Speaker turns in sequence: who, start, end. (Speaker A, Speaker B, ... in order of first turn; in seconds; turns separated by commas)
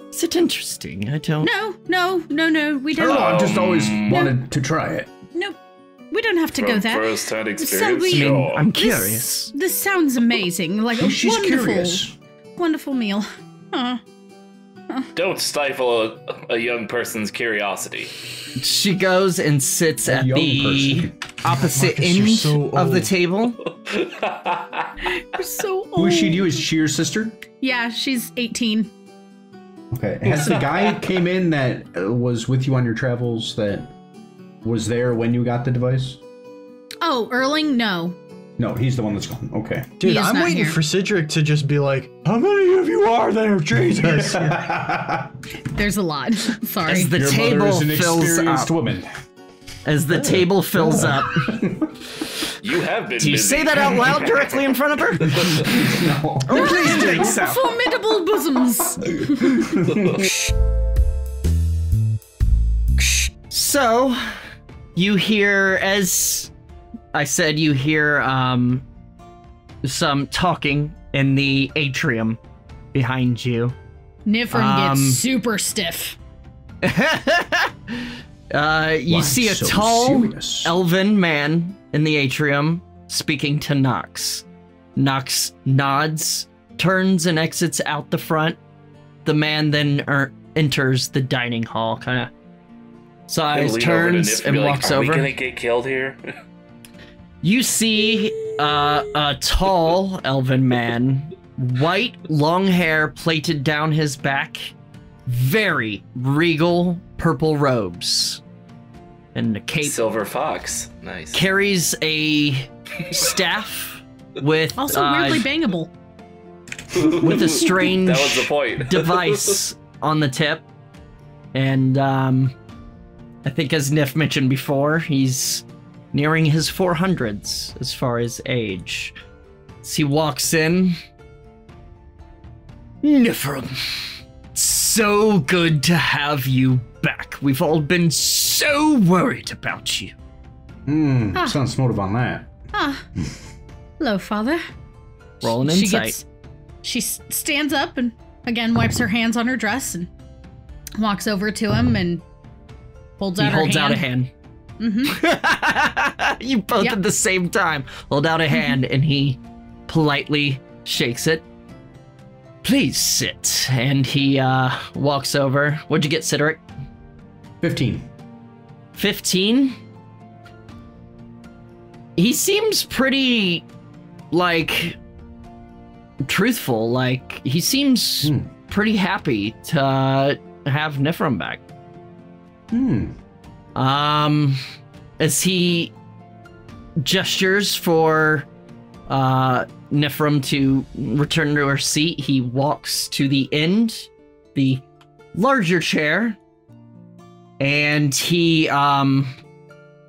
Speaker A: 0.1-1.5, Speaker B: 1.4-4.4, Speaker C: 3.0-5.1, Speaker D: 3.0-4.2, Speaker B: 6.1-12.1, Speaker D: 6.6-8.7, Speaker A: 8.1-9.5, Speaker C: 11.0-12.2, Speaker B: 12.6-14.0, Speaker D: 15.2-18.1, Speaker A: 18.6-23.6, Speaker C: 20.1-21.2, Speaker E: 21.5-23.1, Speaker D: 23.7-24.9, Speaker B: 25.0-26.5, Speaker C: 26.0-27.4, Speaker B: 27.6-28.9, Speaker C: 29.9-33.9, Speaker C: 34.6-36.2, Speaker B: 37.0-38.2, Speaker C: 38.6-40.0, Speaker E: 40.0-44.7, Speaker B: 40.0-40.8, Speaker C: 44.0-45.4, Speaker B: 45.7-47.1, Speaker A: 46.9-48.8, Speaker C: 47.1-49.1, Speaker A: 49.9-51.6, Speaker C: 50.1-52.0, Speaker D: 52.6-54.6, Speaker A: 53.2-55.7, Speaker C: 55.4-57.5, Speaker A: 56.4-57.6, Speaker B: 56.5-60.5, Speaker C: 59.0-60.3, Speaker B: 63.0-63.3, Speaker A: 63.5-64.4, Speaker A: 65.0-66.5, Speaker A: 67.1-68.8, Speaker A: 69.8-72.4, Speaker A: 72.9-73.8, Speaker B: 74.3-76.2, Speaker A: 74.5-75.2, Speaker A: 76.8-84.5, Speaker C: 79.1-80.7, Speaker A: 85.0-88.6, Speaker A: 89.2-92.3, Speaker A: 93.3-95.3, Speaker D: 93.5-96.2, Speaker A: 97.4-104.8, Speaker A: 105.3-108.4, Speaker A: 109.3-110.1, Speaker D: 109.8-111.4, Speaker A: 111.3-115.5, Speaker B: 114.8-115.9, Speaker D: 116.9-119.6, Speaker A: 117.0-120.7, Speaker A: 121.5-122.5, Speaker A: 123.4-129.2, Speaker A: 129.8-131.0, Speaker A: 133.0-140.2, Speaker C: 140.9-142.5, Speaker B: 142.7-143.1, Speaker B: 144.0-144.6, Speaker A: 145.4-146.2, Speaker B: 145.4-146.2, Speaker B: 146.8-150.1, Speaker B: 151.0-152.2, Speaker B: 153.2-154.0, Speaker A: 153.4-154.3, Speaker B: 154.8-155.2, Speaker A: 155.1-161.4, Speaker A: 162.6-166.6, Speaker C: 167.6-168.1, Speaker A: 168.9-169.8, Speaker A: 172.2-173.7, Speaker A: 174.3-175.0, Speaker A: 176.2-181.6, Speaker C: 178.2-178.5, Speaker C: 182.7-183.2, Speaker A: 183.8-184.6, Speaker A: 185.2-185.9, Speaker A: 187.0-188.5, Speaker A: 189.1-194.8, Speaker A: 195.3-196.4, Speaker A: 197.6-199.4